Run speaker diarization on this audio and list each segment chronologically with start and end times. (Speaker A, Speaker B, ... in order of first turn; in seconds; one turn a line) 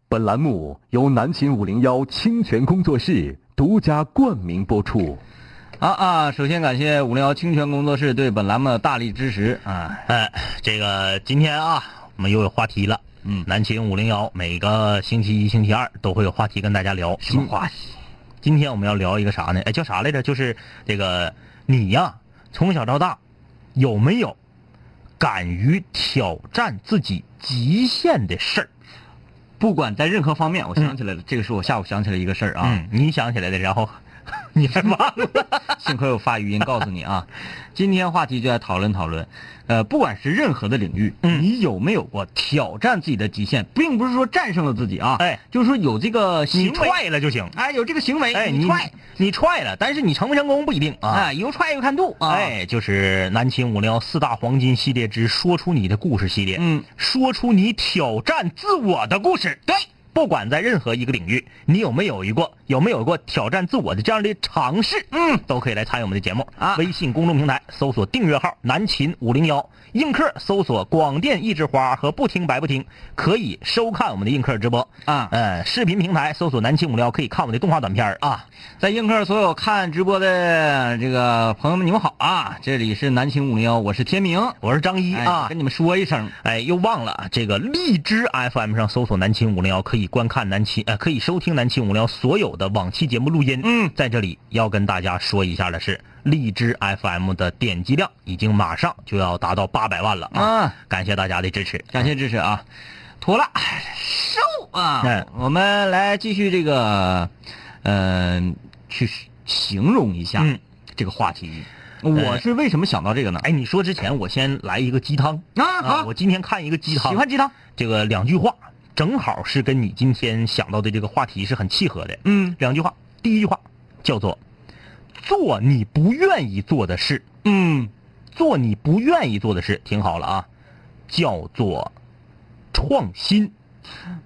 Speaker A: 0.1-5.2
Speaker B: 5.8-10.1
Speaker C: 10.1-17.5
Speaker B: 17.2-17.9
Speaker C: 18.4-23.2
Speaker C: 23.7-24.4
Speaker C: 25.2-28.7
Speaker B: 29.6-32.8
Speaker C: 32.6-34.0
Speaker C: 34.5-35.6
Speaker B: 35.7-47.0
Speaker C: 46.5-47.5
Speaker B: 47.5-48.9
Speaker C: 48.3-51.3
Speaker B: 51.1-52.5
Speaker C: 52.2-78.5
Speaker B: 56.5-56.9
Speaker B: 65.1-65.4
Speaker B: 66.6-66.9
Speaker B: 75.0-75.3
Speaker B: 78.8-84.6
Speaker C: 84.6-85.5
Speaker B: 85.1-86.3
Speaker C: 86.4-102.1
Speaker B: 93.6-93.9
Speaker B: 100.3-100.8
Speaker B: 101.9-102.6
Speaker B: 103.2-107.3
Speaker B: 107.8-113.5
Speaker C: 112.1-112.4
Speaker C: 113.4-124.4
Speaker B: 115.5-116.1
Speaker B: 116.9-117.5
Speaker B: 122.2-122.6
Speaker C: 125.1-127.2
Speaker B: 127.4-127.9
Speaker C: 128.3-130.5
Speaker C: 131.1-131.9
Speaker C: 132.7-133.5